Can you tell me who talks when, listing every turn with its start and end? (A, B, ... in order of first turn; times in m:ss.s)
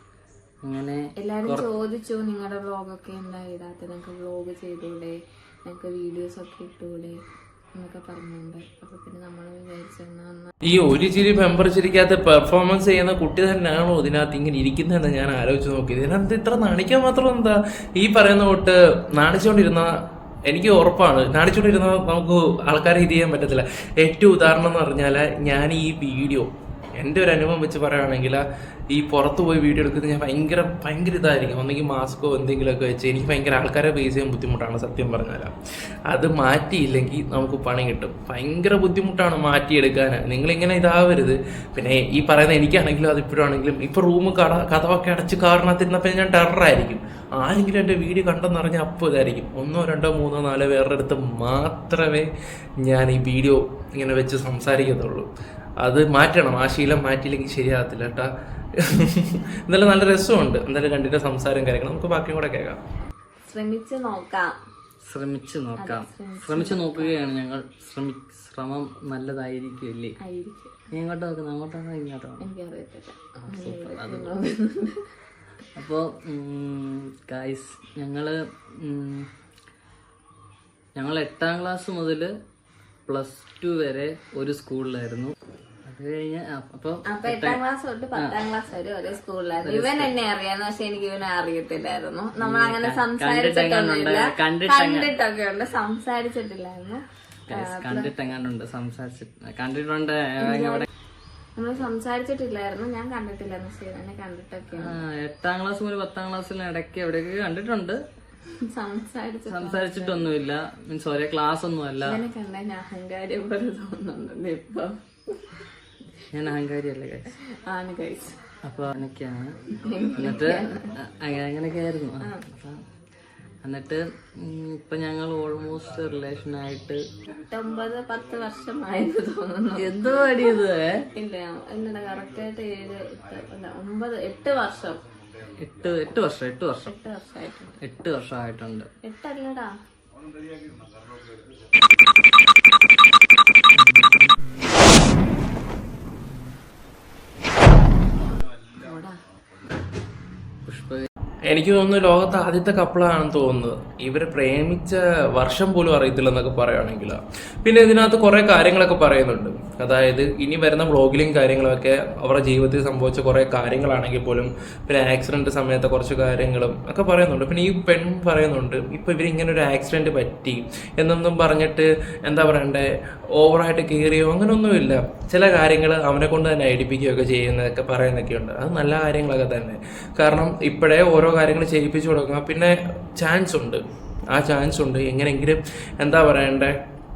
0:00.6-0:01.7 A
0:01.2-0:07.2 B
0:07.8-0:10.5 B
0:10.6-0:19.9 C
0:20.5-0:35.5 C
0:36.1-0:52.3 C
0:52.8-0:55.3 C
0:55.8-1:02.8 C
1:03.5-1:04.5 B
1:05.1-1:10.2 A
1:05.8-1:07.2 B
1:10.2-1:10.9 B
1:10.9-1:12.5 A
1:12.4-1:15.1 B
1:13.4-1:14.3 A
1:15.8-1:19.3 A
1:21.0-1:22.3 A
1:23.1-1:25.3 A
1:25.9-1:27.6 A
1:27.1-1:38.1 B
1:29.6-1:30.1 A
1:32.4-1:35.1 A
1:37.5-1:40.9 A
1:40.4-1:40.9 B
1:41.6-1:45.0 B
1:44.8-1:48.0 A
1:48.7-1:50.3 B
1:49.5-1:52.2 A
1:52.0-1:55.4 B
1:56.3-1:57.3 A
1:57.7-1:58.4 B
1:58.6-1:59.5 A
1:59.8-2:00.9 B
2:00.1-2:02.8 A
2:03.6-2:07.0 A
2:07.5-2:10.6 B
2:09.8-2:10.9 A
2:11.1-2:15.0 B
2:15.6-2:16.9 A
2:16.8-2:17.8 B
2:17.8-2:18.9 A
2:19.0-2:19.7 B
2:23.8-2:25.0 A
2:26.2-2:26.6 A
2:28.8-2:29.2 B
2:30.7-2:31.1 A
2:31.5-3:06.8 C